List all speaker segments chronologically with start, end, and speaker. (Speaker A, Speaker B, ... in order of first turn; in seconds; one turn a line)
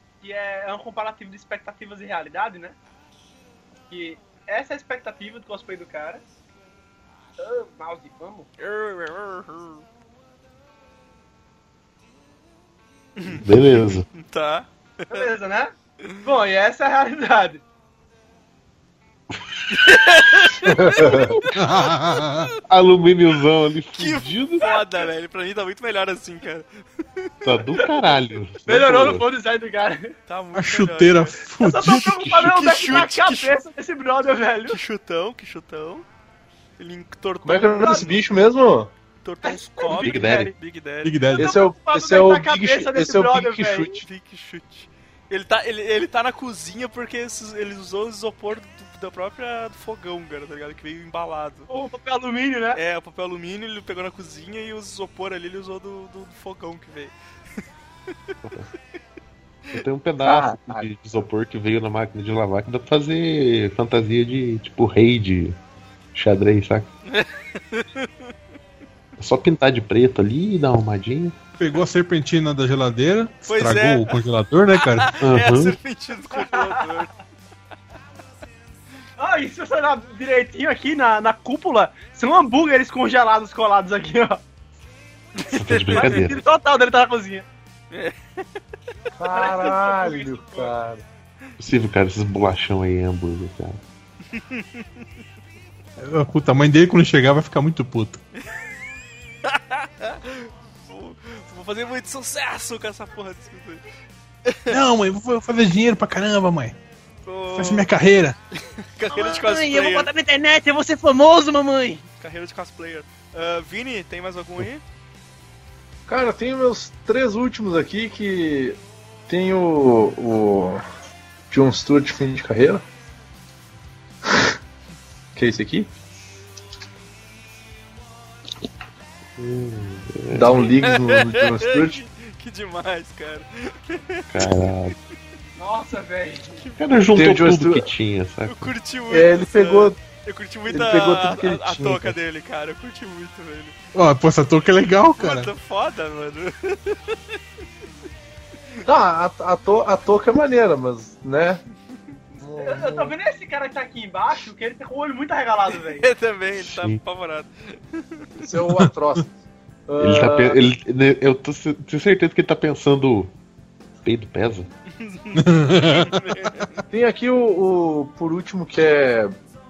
Speaker A: 0.2-2.8
Speaker A: 3.9-6.3
Speaker A: 7.4-8.5
Speaker B: 8.6-9.8
Speaker B: 13.2-15.3
Speaker C: 13.3-14.1
Speaker A: 15.1-17.6
Speaker B: 19.7-21.4
Speaker D: 20.6-21.4
Speaker C: 21.0-21.4
Speaker E: 21.6-22.5
Speaker B: 22.2-22.5
Speaker C: 22.7-24.7
Speaker B: 24.0-27.6
Speaker C: 27.5-29.3
Speaker A: 28.6-30.1
Speaker B: 30.3-31.4
Speaker E: 30.5-32.5
Speaker A: 31.6-34.8
Speaker B: 32.4-33.6
Speaker B: 34.7-36.0
Speaker B: 36.8-38.2
Speaker D: 37.4-38.9
Speaker A: 37.8-38.1
Speaker B: 39.2-41.3
Speaker A: 39.4-40.5
Speaker C: 39.9-40.5
Speaker E: 41.0-41.6
Speaker D: 41.4-44.0
Speaker A: 41.4-44.0
Speaker B: 44.0-51.7
Speaker A: 51.7-52.8
Speaker B: 52.8-57.1
Speaker C: 59.7-65.6
Speaker D: 60.2-60.9
Speaker C: 66.1-66.9
Speaker B: 67.1-68.3
Speaker C: 69.2-71.3
Speaker E: 71.6-75.1
Speaker B: 73.5-74.2
Speaker B: 74.8-77.1
Speaker C: 75.2-75.8
Speaker A: 76.3-77.0
Speaker A: 79.2-84.4
Speaker C: 85.5-86.4
Speaker A: 85.6-87.5
Speaker B: 87.9-88.2
Speaker D: 89.2-91.0
Speaker A: 89.3-90.8
Speaker C: 91.6-93.8
Speaker B: 94.4-94.8
Speaker E: 96.0-98.2
Speaker B: 99.4-103.8
Speaker B: 104.5-104.8
Speaker E: 104.7-106.8
Speaker B: 107.2-107.9
Speaker E: 107.5-108.4
Speaker B: 108.6-110.1
Speaker A: 109.1-112.1
Speaker B: 112.2-114.8
Speaker D: 116.1-120.8
Speaker D: 121.5-122.8
Speaker D: 124.2-124.5
Speaker D: 125.4-125.9
Speaker C: 129.4-130.7
Speaker D: 130.3-132.0
Speaker B: 130.8-134.5
Speaker C: 134.3-134.9
Speaker A: 135.6-136.5
Speaker B: 136.6-136.9
Speaker C: 136.8-138.7
Speaker D: 137.1-137.9
Speaker B: 138.5-143.8
Speaker D: 139.1-140.0
Speaker D: 140.7-142.2
Speaker E: 143.9-145.5
Speaker B: 145.2-147.3
Speaker D: 148.9-151.6
Speaker D: 152.4-153.2
Speaker A: 152.6-156.1
Speaker B: 155.8-158.3
Speaker C: 156.7-157.0
Speaker D: 158.4-159.3
Speaker E: 158.6-159.2
Speaker D: 159.9-160.6
Speaker C: 160.0-163.3
Speaker C: 164.0-164.7
Speaker B: 164.9-166.8
Speaker E: 165.3-166.3
Speaker D: 166.9-169.3